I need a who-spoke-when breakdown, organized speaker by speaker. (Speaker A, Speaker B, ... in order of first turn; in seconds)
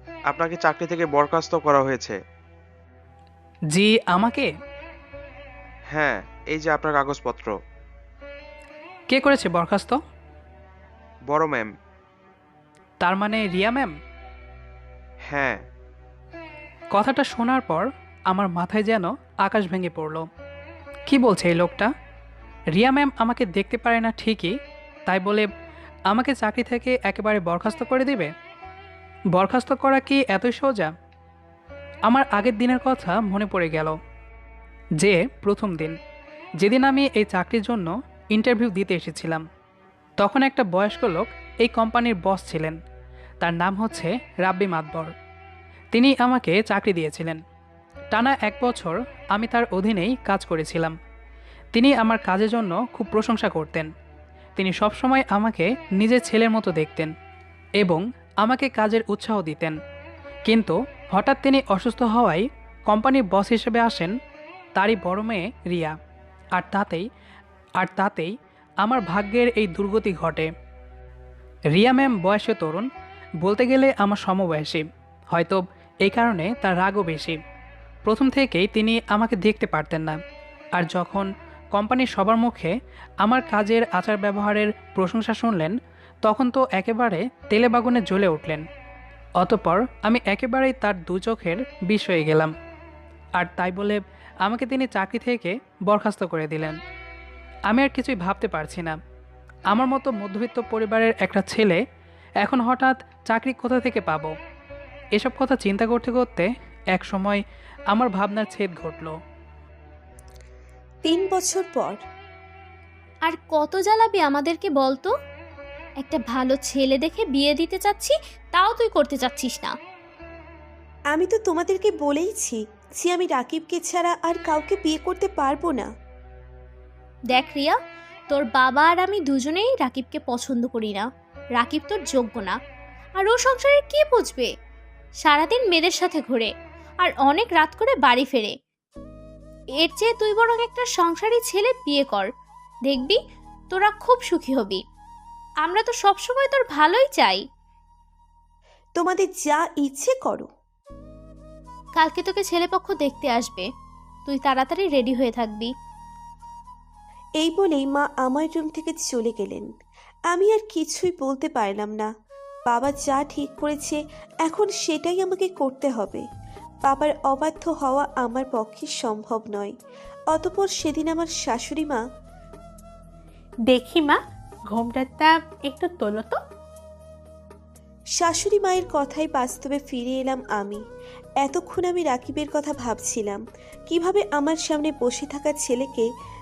Speaker A: 0.3-2.1, 6.0-7.3
Speaker B: 3.7-4.5, 9.1-10.0, 13.0-13.9, 16.9-20.2, 21.1-21.9, 22.7-24.5, 25.1-25.5, 26.1-28.3, 29.3-30.9, 32.1-33.9, 35.0-36.0, 36.6-39.4, 40.2-42.8, 43.4-45.1, 45.9-47.4, 48.1-50.9, 51.7-53.9, 54.5-57.1, 57.8-59.7, 60.5-64.1, 64.7-65.9, 66.5-67.0, 67.8-68.3, 68.8-70.5, 71.7-72.9, 73.4-77.4, 78.0-80.2, 80.8-88.6, 89.4-92.5, 93.4-96.8, 97.7-99.0, 99.7-101.8, 102.4-104.3, 105.2-109.2
Speaker C: 111.0-112.0, 121.1-125.9, 148.9-150.5, 157.4-159.7, 160.3-162.1, 162.7-166.2, 166.8-169.7, 170.3-172.0, 178.2-180.8, 181.4-186.1
Speaker D: 113.3-115.1, 116.0-119.7, 127.3-127.7, 128.3-132.6, 133.2-134.5, 135.2-136.5, 137.0-138.5, 139.8-142.3, 142.9-143.2, 143.7-144.8, 145.6-147.4, 152.0-153.7, 154.2-155.7
Speaker E: 173.7-176.4